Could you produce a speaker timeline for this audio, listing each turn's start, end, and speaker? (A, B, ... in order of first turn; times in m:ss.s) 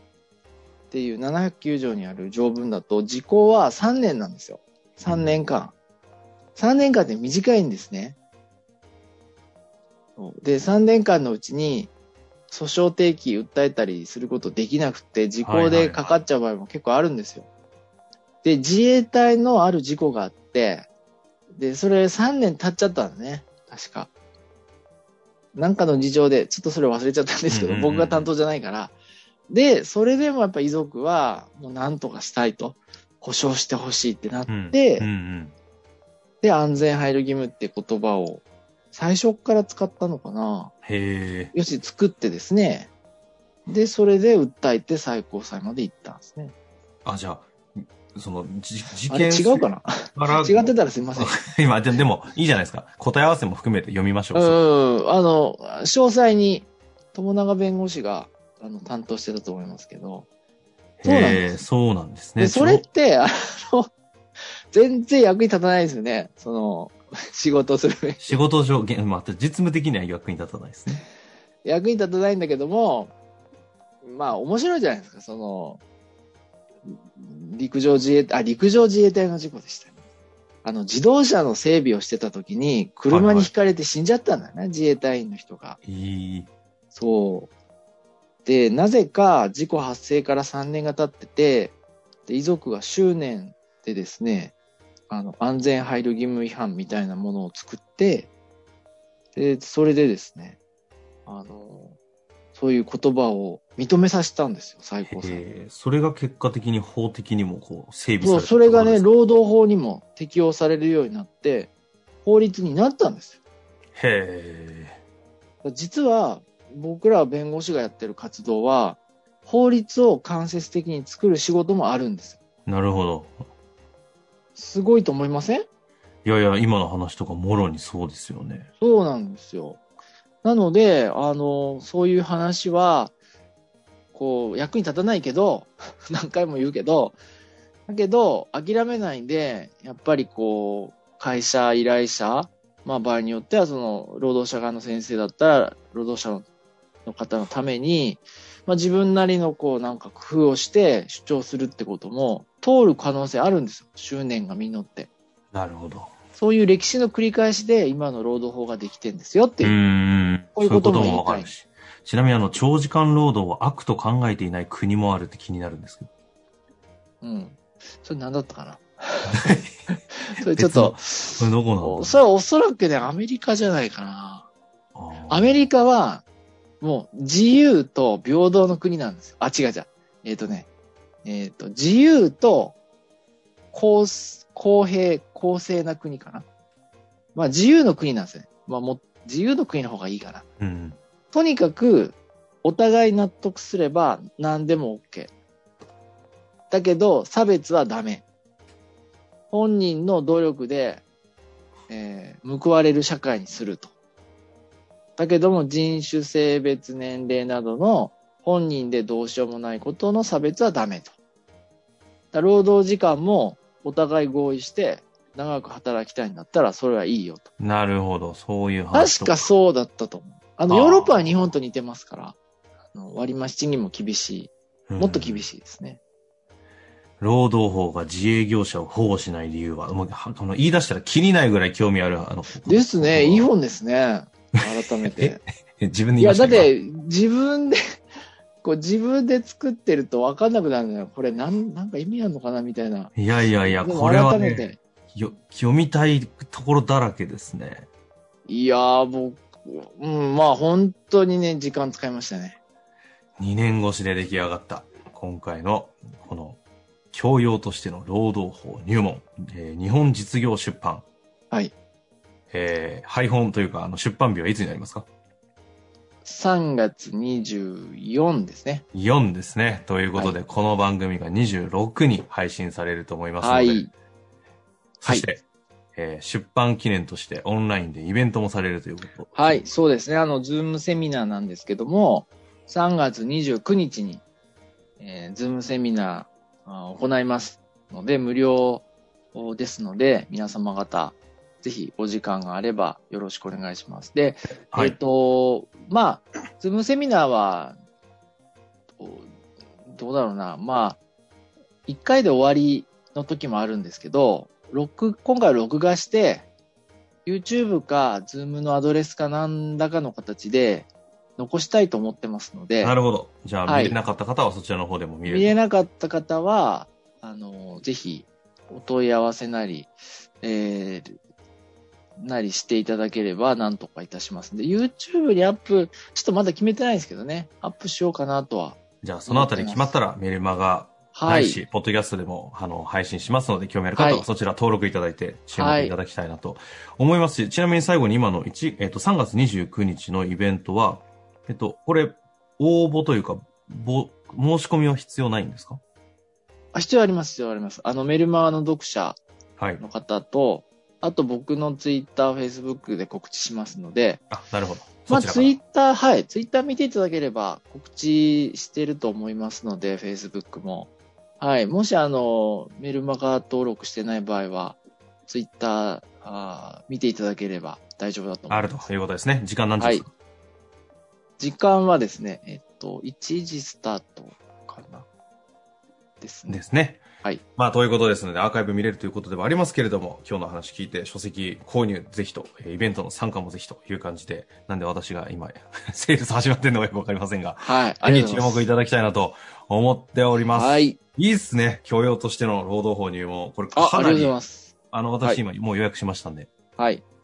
0:00.9-0:05.7 A
0:05.0-0:05.4 B
0:06.6-0:08.2 A
0:10.2-0:11.9 A
0:12.5-0:17.5 A
0:15.4-0:16.2 B
0:18.4-0:20.9 A
0:21.5-0:24.1 A
0:25.5-0:28.9 A
0:27.5-0:28.3 B
0:29.5-0:35.1 A
0:34.5-0:35.5 B
0:36.4-0:40.7 A
0:40.8-0:41.5 B
0:41.5-0:42.9 A
0:43.7-0:46.5 A
0:47.0-0:54.6 B
0:49.1-0:51.4 A
0:54.3-1:00.3 A
1:01.0-1:02.8 B
1:01.0-1:01.6 A
1:02.4-1:03.9 A
1:04.7-1:08.4 A
1:08.2-1:11.0 B
1:11.6-1:13.1 A
1:14.0-1:15.8 A
1:16.9-1:20.0 A
1:20.6-1:25.8 A
1:23.1-1:23.5 B
1:25.8-1:26.5 B
1:26.9-1:27.5 A
1:28.4-1:31.7 A
1:32.3-1:34.5 A
1:35.1-1:38.3 A
1:39.4-1:40.6 A
1:41.2-1:42.0 A
1:42.5-1:45.4 A
1:45.0-1:49.0 B
1:48.2-1:51.7 A
1:52.2-1:53.4 A
1:53.9-1:55.0 B
1:55.6-2:02.4 A
2:02.6-2:03.4 B
2:04.6-2:05.6 A
2:06.2-2:08.7 B
2:08.8-2:09.8 A
2:10.4-2:13.1 A
2:14.1-2:17.2 A
2:17.9-2:26.4 A
2:27.0-2:35.1 A
2:35.5-2:36.1 B
2:36.3-2:39.8 A
2:39.6-2:46.1 B
2:40.5-2:41.5 A
2:47.2-2:49.4 A
2:49.2-2:49.7 B
2:50.2-2:54.5 A
2:50.4-2:52.2 B
2:54.9-2:55.5 B
2:55.3-2:56.2 A
2:56.8-3:00.7 A
3:01.2-3:02.8 A
3:03.7-3:06.4 A
3:07.3-3:10.4 A
3:10.6-3:11.0 B
3:11.3-3:15.3 A
3:16.7-3:18.2 A
3:19.5-3:21.0 A
3:21.9-3:23.9 A
3:25.2-3:31.1 A
3:32.3-3:37.5 A
3:37.6-3:39.5 B
3:38.9-3:42.4 A
3:40.7-3:41.4 B
3:42.9-3:46.0 A
3:44.9-3:45.4 B
3:47.2-3:53.5 B
3:52.6-3:55.4 A
3:55.0-3:56.7 B
3:56.2-3:57.8 A
3:58.6-4:04.8 A
4:03.1-4:07.9 B
4:08.4-4:12.6 A
4:13.4-4:16.6 B
4:17.1-4:21.0 B
4:22.5-4:25.0 B
4:26.2-4:28.8 A
4:28.9-4:33.9 B
4:33.4-4:33.9 A
4:35.0-4:35.4 B
4:35.9-4:39.6 B
4:39.3-4:44.2 A
4:45.0-4:57.7 A
4:54.7-4:55.0 B
4:59.0-4:59.3 A
4:59.9-5:01.0 A
5:01.9-5:06.4 A
5:07.2-5:13.0 A
5:12.8-5:15.6 B
5:13.6-5:14.0 A
5:15.2-5:21.2 A
5:22.2-5:29.9 A
5:29.0-5:45.8 B
5:31.1-5:31.6 A
5:33.9-5:34.2 A
5:35.6-5:35.9 A
5:46.7-5:49.2 A
5:49.6-5:49.8 B
5:49.8-5:54.2 A
5:54.3-5:55.6 B
5:55.1-6:08.8 A
6:08.5-6:10.1 B
6:09.8-6:10.0 A
6:11.4-6:15.0 A
6:16.2-6:16.6 A
6:16.5-6:17.0 B
6:17.6-6:34.4 B
6:27.6-6:28.7 A
6:30.6-6:31.0 A
6:33.7-6:34.7 A
6:34.9-6:36.5 B
6:36.8-6:37.0 A